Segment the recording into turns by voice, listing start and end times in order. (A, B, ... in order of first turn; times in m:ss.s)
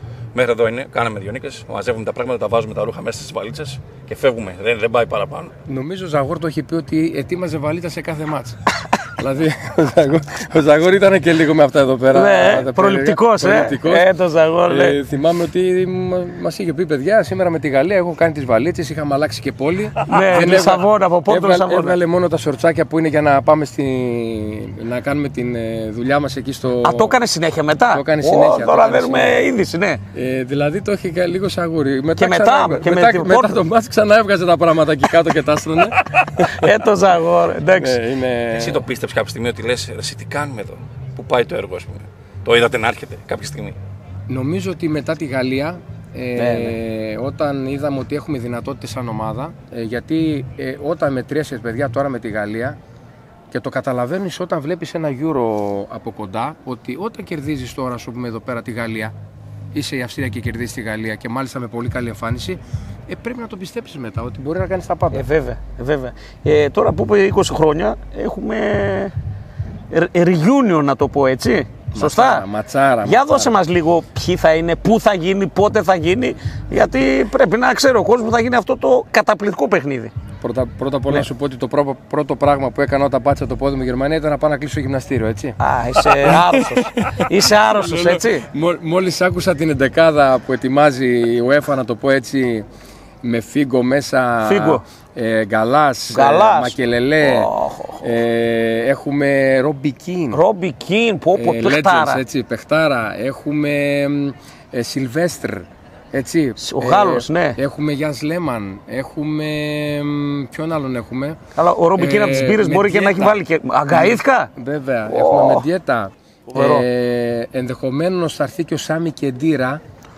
0:00.3-0:05.5 A
0:05.7-0:08.6 B
0:09.2-0:14.1 B
0:12.1-0:15.0 C
0:14.7-0:27.1 B
0:20.0-0:22.0 C
0:26.8-0:30.0 C
0:27.9-0:29.4 B
0:30.1-0:36.6 B
0:32.2-0:33.6 C
0:36.5-0:38.0 C
0:37.8-0:38.8 B
0:38.5-0:43.8 A
0:44.3-0:52.8 B
0:46.4-0:46.8 C
0:53.5-0:59.1 B
0:59.7-1:05.2 B
1:05.1-1:09.1 C
1:09.9-1:12.4 C
1:11.9-1:13.5 B
1:13.0-1:20.1 C
1:20.4-1:32.6 B
1:25.6-1:28.5 C
1:33.2-1:40.4 B
1:34.4-1:34.8 C
1:36.1-1:38.0 C
1:40.3-1:42.2 C
1:41.3-1:51.4 B
1:46.6-1:47.6 C
1:51.6-1:54.5 C
1:52.0-1:53.4 B
1:53.9-1:59.8 B
1:55.1-1:55.7 C
1:56.5-1:56.8 C